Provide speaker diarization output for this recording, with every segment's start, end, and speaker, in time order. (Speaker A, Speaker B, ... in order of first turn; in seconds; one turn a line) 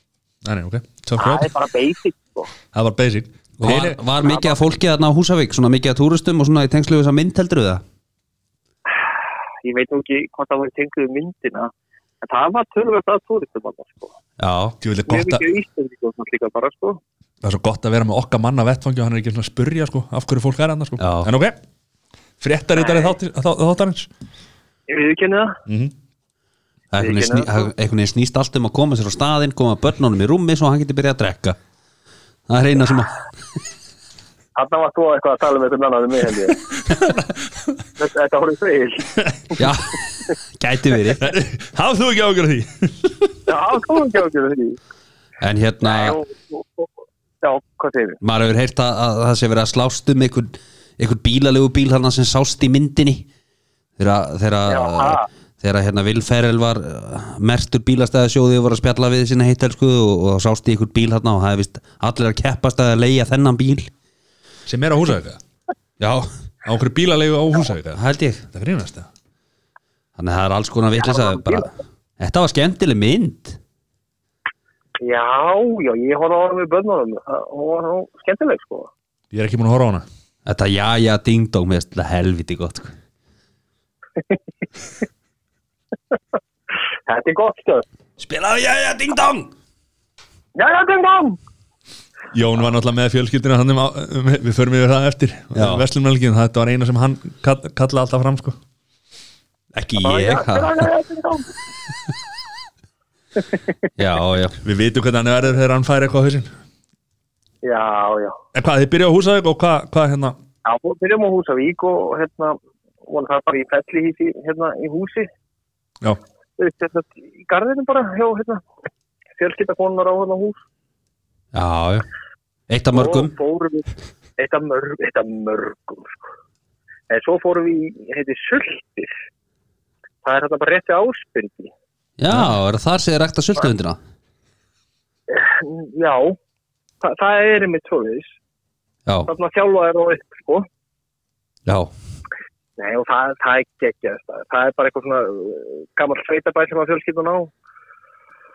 Speaker A: 0.4-1.5
Speaker B: 1.2-2.5
Speaker A: 2.7-4.0
Speaker C: 3.6-7.8
Speaker B: 4.2-4.6
Speaker B: 9.6-14.1
Speaker C: 14.4-14.8
Speaker A: 14.8-15.4
Speaker B: 15.1-17.0
Speaker A: 17.4-21.6
Speaker C: 21.0-21.3
Speaker A: 22.4-24.1
Speaker B: 22.8-23.1
Speaker B: 24.9-25.6
Speaker A: 25.7-25.9
Speaker C: 26.9-31.6
Speaker B: 27.0-27.7
Speaker C: 32.5-33.1
Speaker B: 34.5-36.6
Speaker A: 36.7-37.5
Speaker B: 38.0-39.6
Speaker C: 39.6-41.2
Speaker A: 41.2-43.4
Speaker B: 43.5-44.8
Speaker C: 45.4-46.2
Speaker B: 45.8-48.2
Speaker C: 48.2-53.3
Speaker C: 54.0-63.9
Speaker B: 54.7-55.3
Speaker A: 64.7-65.4
Speaker C: 66.0-66.3
Speaker A: 66.6-68.0
Speaker C: 67.9-68.4
Speaker A: 68.5-69.1
Speaker C: 70.2-73.6
Speaker B: 71.0-71.7
Speaker B: 75.0-78.9
Speaker A: 79.3-80.0
Speaker C: 80.5-82.9
Speaker B: 87.1-87.8
Speaker C: 88.2-89.5
Speaker B: 90.5-91.4
Speaker A: 92.3-98.5
Speaker C: 95.5-95.8
Speaker C: 99.7-100.9
Speaker B: 100.0-101.5
Speaker C: 104.0-104.5
Speaker A: 104.6-106.5
Speaker B: 107.6-108.4
Speaker A: 108.5-110.4
Speaker B: 110.6-115.3
Speaker B: 116.6-118.6
Speaker B: 119.4-120.6
Speaker C: 121.5-122.0
Speaker C: 122.7-123.3
Speaker B: 122.9-126.3
Speaker B: 127.1-129.1
Speaker B: 130.2-131.7
Speaker C: 132.2-134.0
Speaker B: 135.3-136.4
Speaker B: 137.0-138.4
Speaker B: 139.3-140.7
Speaker C: 141.7-141.9
Speaker B: 142.8-147.5